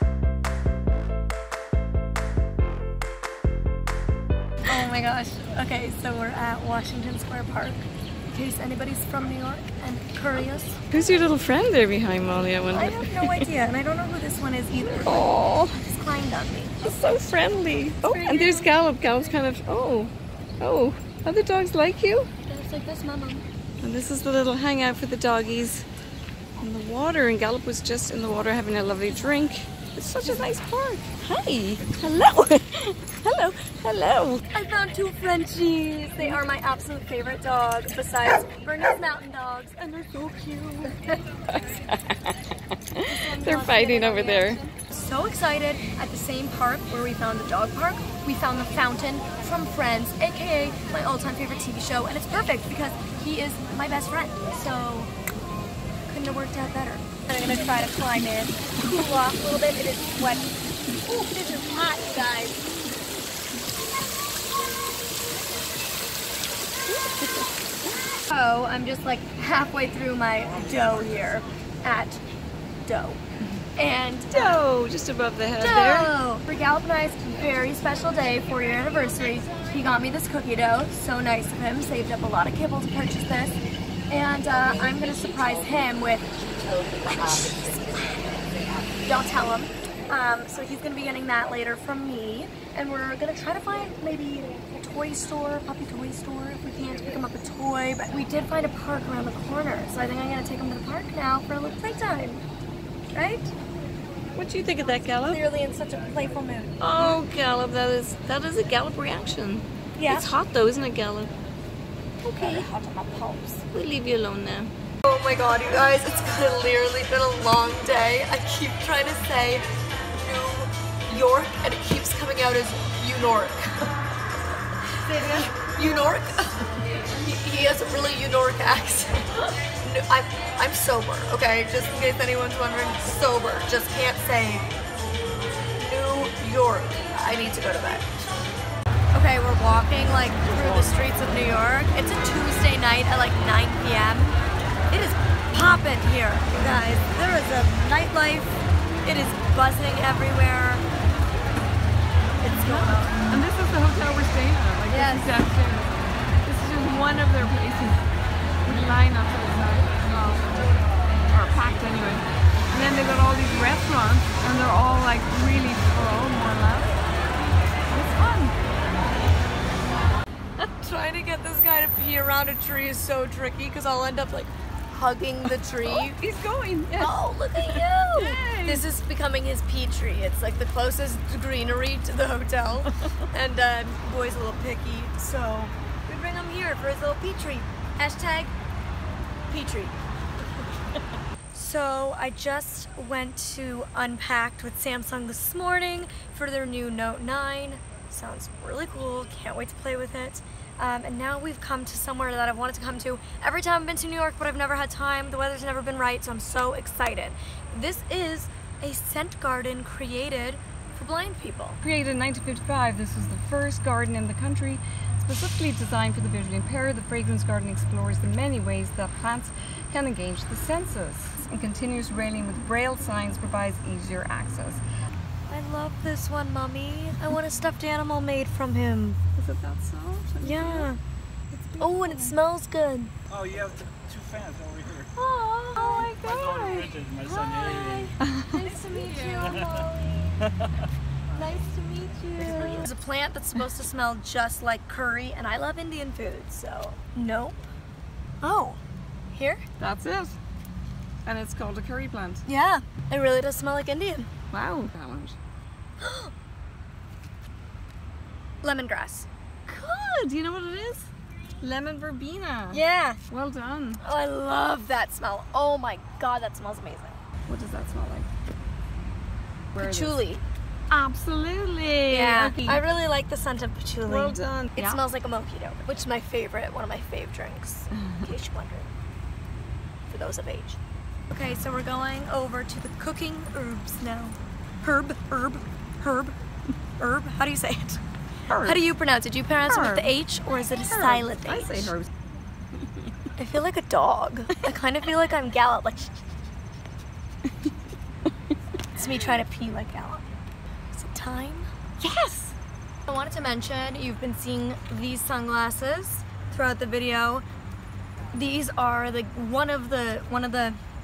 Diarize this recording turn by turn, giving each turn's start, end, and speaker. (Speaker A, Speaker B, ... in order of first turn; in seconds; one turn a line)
Speaker A: 4.7-10.8
Speaker B: 10.9-13.5
Speaker A: 12.7-17.0
Speaker B: 14.8-15.8
Speaker B: 16.8-22.3
Speaker A: 18.0-18.7
Speaker A: 22.4-23.4
Speaker B: 23.8-25.9
Speaker B: 26.6-34.4
Speaker A: 30.1-30.4
Speaker A: 34.5-39.8
Speaker B: 39.8-42.4
Speaker B: 42.9-44.6
Speaker A: 43.0-55.1
Speaker A: 56.1-62.7
Speaker B: 67.0-67.4
Speaker A: 68.3-72.2
Speaker A: 72.8-73.2
Speaker A: 73.8-74.6
Speaker B: 74.3-76.1
Speaker A: 75.6-83.6
Speaker A: 84.1-88.4
Speaker A: 89.0-102.4
Speaker A: 103.1-103.5
Speaker B: 104.3-105.4
Speaker A: 105.2-107.2
Speaker B: 106.8-111.3
Speaker A: 110.0-110.3
Speaker B: 112.2-112.7
Speaker A: 112.3-113.6
Speaker B: 113.7-114.7
Speaker A: 115.0-123.9
Speaker A: 125.0-134.7
Speaker A: 135.8-138.1
Speaker A: 139.1-144.3
Speaker A: 144.9-150.8
Speaker A: 152.4-153.2
Speaker B: 152.6-155.9
Speaker A: 154.9-155.3
Speaker B: 156.4-158.0
Speaker B: 158.6-160.6
Speaker B: 161.3-167.0
Speaker B: 167.9-168.6
Speaker A: 170.6-176.2
Speaker B: 175.8-178.8
Speaker A: 176.9-188.5
Speaker A: 189.5-190.0
Speaker A: 191.5-211.8
Speaker B: 211.8-224.8
Speaker A: 225.5-229.2
Speaker B: 229.3-230.9
Speaker A: 230.4-231.0
Speaker B: 231.5-232.3
Speaker A: 231.8-233.1
Speaker C: 233.3-235.1
Speaker A: 235.1-236.2
Speaker B: 235.8-237.0
Speaker C: 236.2-238.1
Speaker A: 236.9-240.5
Speaker B: 238.2-239.6
Speaker A: 241.3-247.6
Speaker B: 241.9-242.8
Speaker A: 248.4-248.8
Speaker A: 249.3-249.6
Speaker B: 249.8-250.4
Speaker B: 251.2-252.4
Speaker A: 252.4-254.3
Speaker B: 254.5-255.3
Speaker A: 256.0-256.3
Speaker A: 258.6-259.3
Speaker B: 259.6-264.0
Speaker A: 262.7-263.2
Speaker A: 264.0-267.2
Speaker B: 267.5-268.3
Speaker B: 269.7-270.2
Speaker A: 269.8-270.4
Speaker B: 270.9-272.8
Speaker A: 272.1-278.9
Speaker B: 274.1-275.0
Speaker A: 280.1-280.8
Speaker A: 281.3-286.4
Speaker A: 287.0-288.0
Speaker B: 288.5-288.8
Speaker A: 288.6-291.9
Speaker B: 289.7-290.1
Speaker B: 290.9-292.1
Speaker A: 293.4-296.2
Speaker A: 298.9-300.3
Speaker A: 300.9-301.7
Speaker B: 302.0-302.5
Speaker A: 303.1-307.4
Speaker A: 308.3-310.8